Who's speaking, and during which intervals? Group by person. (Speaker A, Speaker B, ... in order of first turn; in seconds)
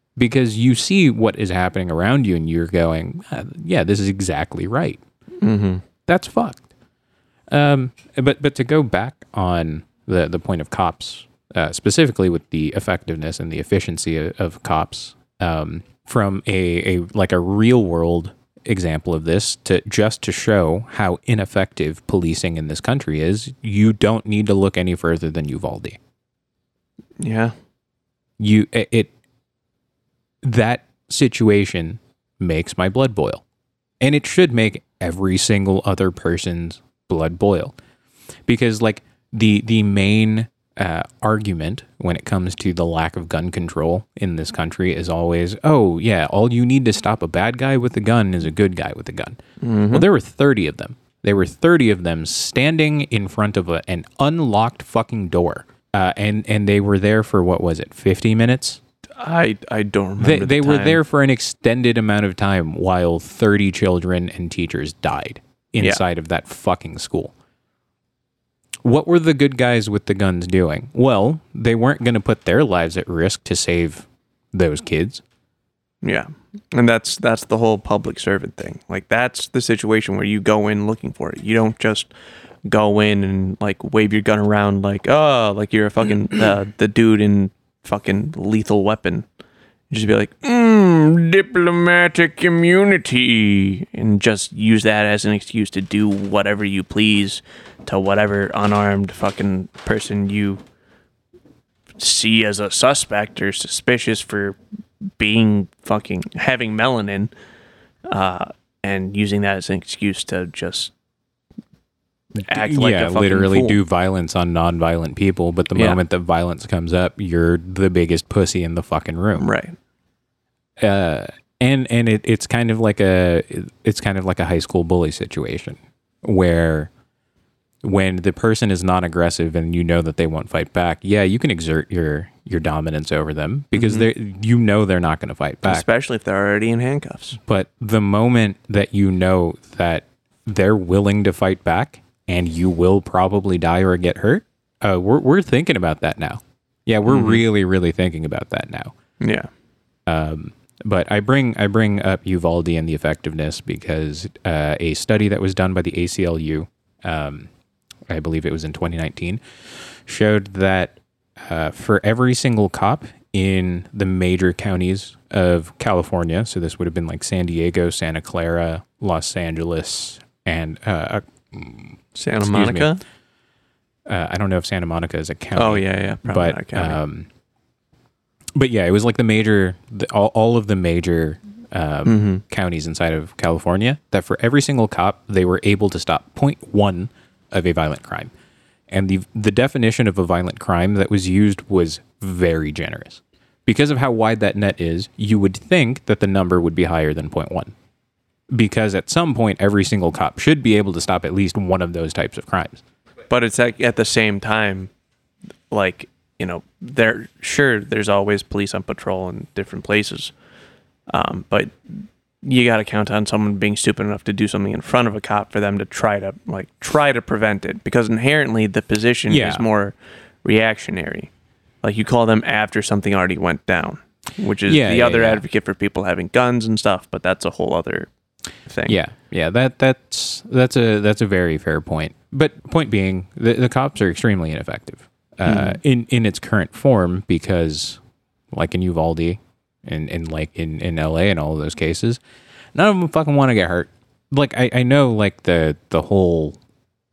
Speaker A: 0.2-5.0, 6.1-6.7, 7.5-26.0, 28.4-29.1, 30.4-33.4, 34.0-37.8, 38.5-58.8, 60.2-67.3, 68.8-75.2, 112.3-119.5, 120.8-126.9, 127.8-135.8, 137.4-148.9, 150.1-157.5, 158.1-159.4, 160.1-172.9, 174.1-177.3, 178.6-188.3, 188.9-197.7, 198.5-202.8, 219.3-219.6, 224.6-225.4, 228.8-238.0, 238.5-242.2, 242.7-246.6
Speaker B: 5.4-5.8, 27.2-27.5, 49.6-50.0, 59.2-61.0, 76.0-82.1, 82.7-89.3, 89.9-100.6, 102.0-104.6, 105.2-107.3, 108.1-110.9, 112.3-113.8, 119.4-119.8, 133.7-134.1, 135.6-137.4, 147.1-147.4, 149.2-149.5, 172.1-173.0, 175.6-177.0, 182.0-182.4, 203.3-204.9, 205.7-210.3, 211.1-221.3, 221.8-228.1, 228.7-228.9, 235.4-235.8